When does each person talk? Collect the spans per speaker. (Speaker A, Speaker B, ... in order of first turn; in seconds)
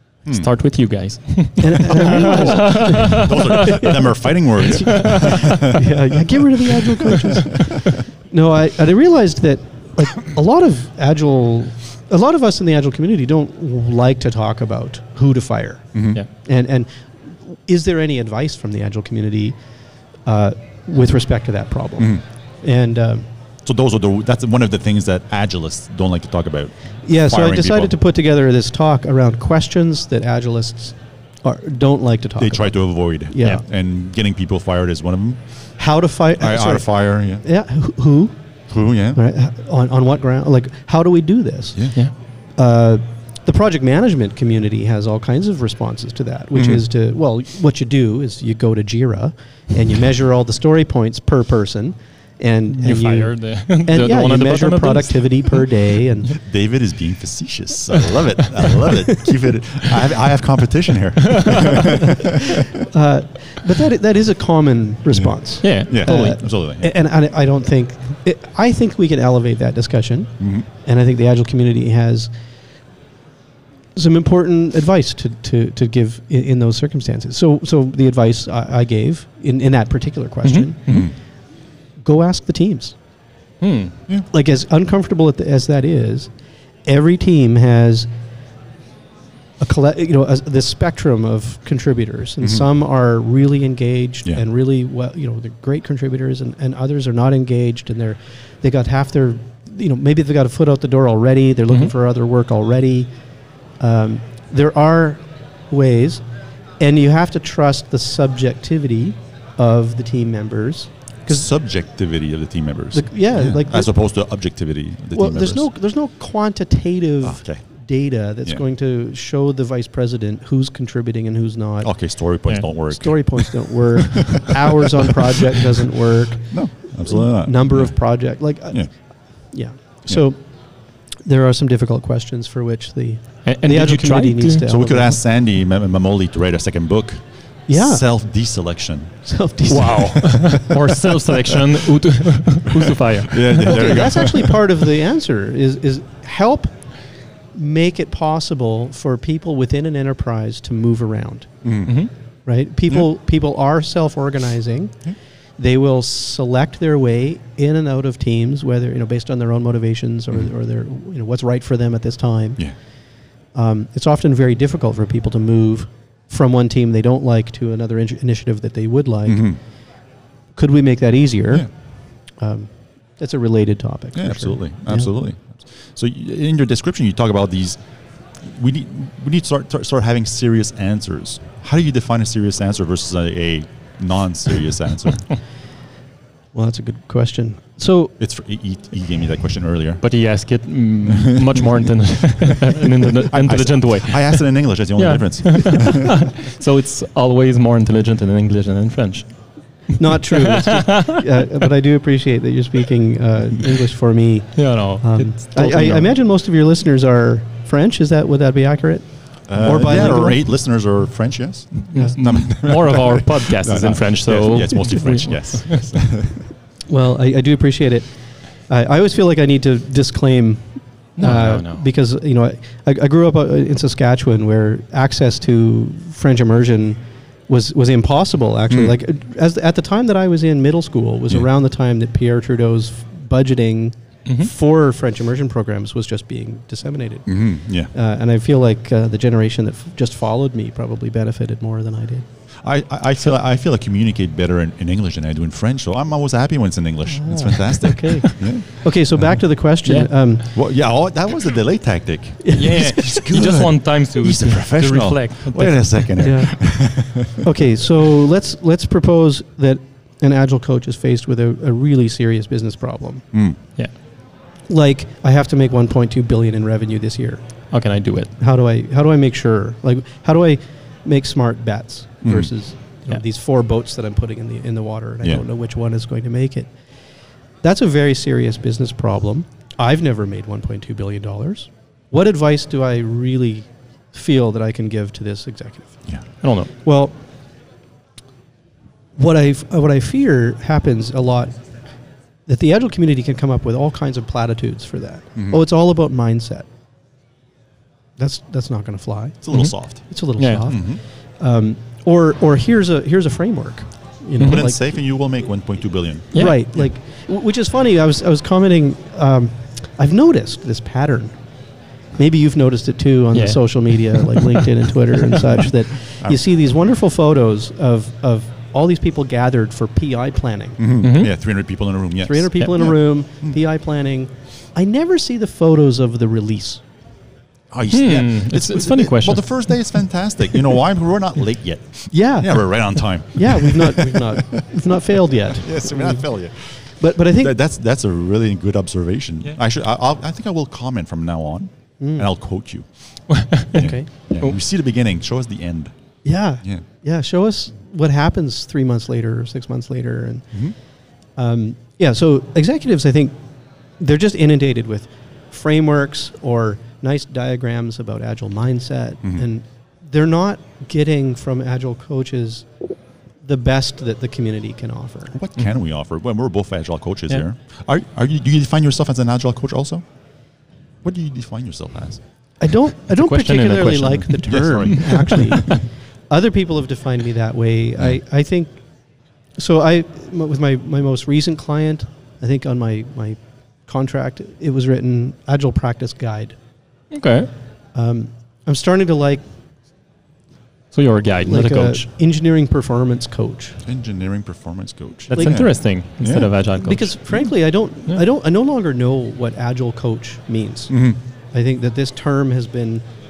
Speaker A: 0.3-4.0, 4.7-5.7, 52.8-55.6, 61.3-61.7, 65.6-66.4, 80.4-81.1, 83.6-83.9, 133.4-134.7, 139.7-144.0, 151.8-152.1, 190.0-199.3, 200.3-201.2, 204.6-206.1, 211.9-215.9, 221.2-221.8, 249.8-250.1, 252.5-256.3, 267.7-268.3, 286.4-286.7, 300.4-300.6, 313.3-314.7, 321.0-321.3, 327.9-329.7, 343.3-343.9, 373.1-374.4, 387.1-387.5, 390.9-392.0, 395.3-397.1
Speaker B: 1.6-3.9, 4.7-19.6, 20.2-23.3, 27.0-32.8, 33.3-33.6, 35.8-36.9, 37.4-38.4, 39.1-41.8, 42.6-56.4, 62.0-72.3, 73.9-80.8, 82.0-83.0, 84.3-86.3, 86.8-88.1, 89.6-103.1, 103.8-106.2, 106.8-111.5, 112.9-113.9, 115.1-121.9, 122.9-128.9, 129.5-130.4, 131.2-135.2, 137.7-138.1, 139.2-140.7, 143.6-146.7, 147.5-151.5, 152.4-154.9, 155.6-162.6, 163.5-169.5, 170.6-171.7, 172.4-175.1, 186.5-188.1, 200.0-210.4, 216.9-218.1, 218.7-237.4, 237.9-242.2, 247.1-250.4, 252.4-253.3, 256.2-263.2, 264.7-267.4, 268.4-276.7, 277.6-286.0, 286.8-287.1, 289.1-291.6, 292.5-296.6, 298.2-304.8, 306.3-311.3, 312.2-320.8, 322.2-326.8, 332.1-336.2, 337.0-337.5, 342.0-342.3, 343.7-344.1, 346.2-350.6, 351.4-353.4, 354.0-362.7, 363.4-365.4, 372.6-378.8, 379.6-386.6, 387.9-389.4, 391.4-393.8, 396.8-401.0, 401.5-403.0
Speaker C: 2.1-7.9, 15.9-16.2, 23.6-27.9, 32.4-35.4, 36.4-37.4, 38.7-39.2, 46.5-46.8, 56.3-62.8, 65.8-66.9, 70.4-70.6, 80.9-81.1, 111.3-115.7, 117.2-117.6, 121.8-125.1, 126.5-128.0, 134.7-139.2, 142.7-144.6, 151.6-152.0, 169.3-169.6, 174.2-177.8, 178.4-185.3, 188.2-190.0, 191.1-191.5, 193.1-196.1, 209.5-216.4, 228.7-229.0, 237.3-237.9, 242.6-248.7, 250.5-257.4, 263.3-263.6, 272.2-272.5, 299.4-300.0, 300.7-301.0, 304.4-306.8, 320.8-323.5, 327.7-334.9, 335.5-336.8, 337.3-345.9, 365.3-370.0, 371.0-372.2, 374.4-375.6, 393.8-396.5, 400.9-401.2